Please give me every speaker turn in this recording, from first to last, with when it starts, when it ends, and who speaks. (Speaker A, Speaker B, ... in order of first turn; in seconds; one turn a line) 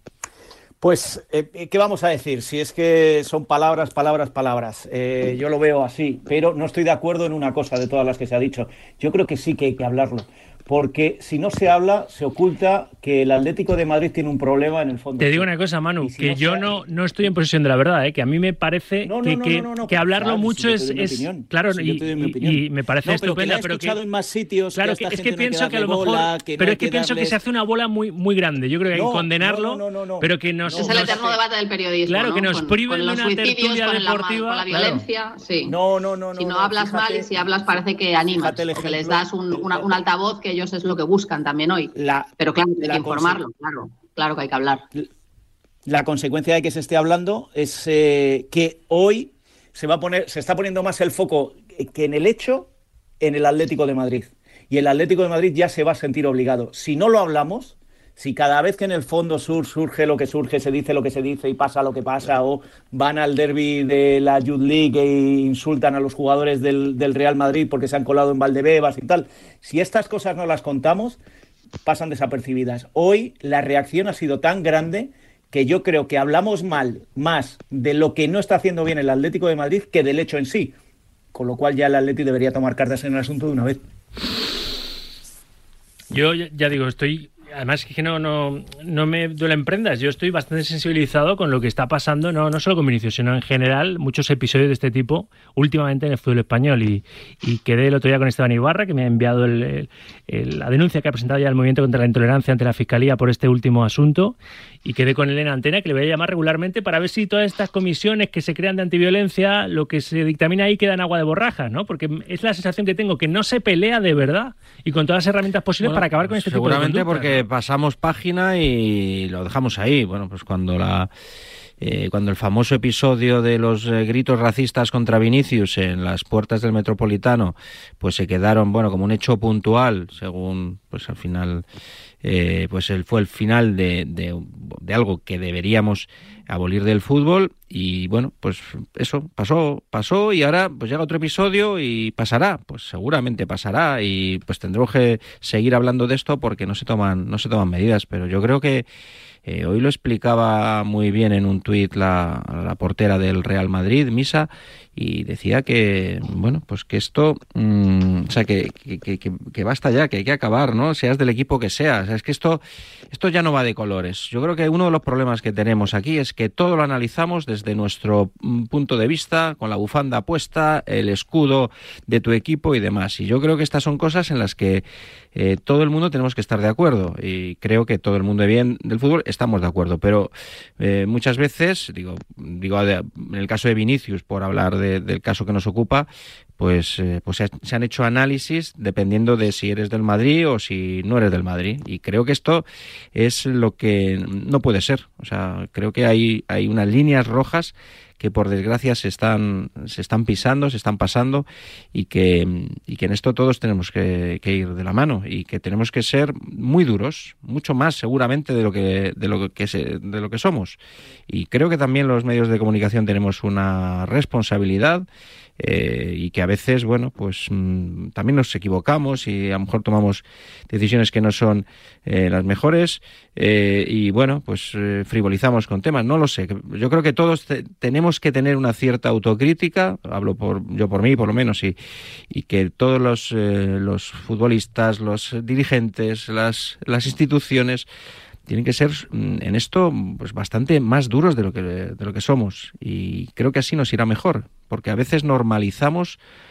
Speaker A: 0.8-15.5
Speaker B: 15.2-24.0
Speaker A: 16.0-16.8
Speaker A: 19.0-27.4
Speaker B: 24.7-31.2
Speaker A: 28.9-31.4
Speaker C: 30.8-35.8
Speaker B: 32.0-35.0
Speaker A: 35.6-37.3
Speaker C: 36.4-44.8
Speaker A: 38.3-39.9
Speaker A: 41.9-43.4
Speaker A: 45.9-52.7
Speaker A: 53.2-71.2
Speaker A: 71.8-80.7
Speaker A: 81.3-83.8
Speaker B: 86.1-117.4
Speaker D: 115.8-121.1
Speaker D: 121.8-131.6
Speaker D: 132.2-148.9
Speaker D: 149.4-186.1
Speaker D: 186.6-215.1
Speaker D: 215.6-231.8
Speaker D: 232.3-237.9
Speaker D: 238.5-246.2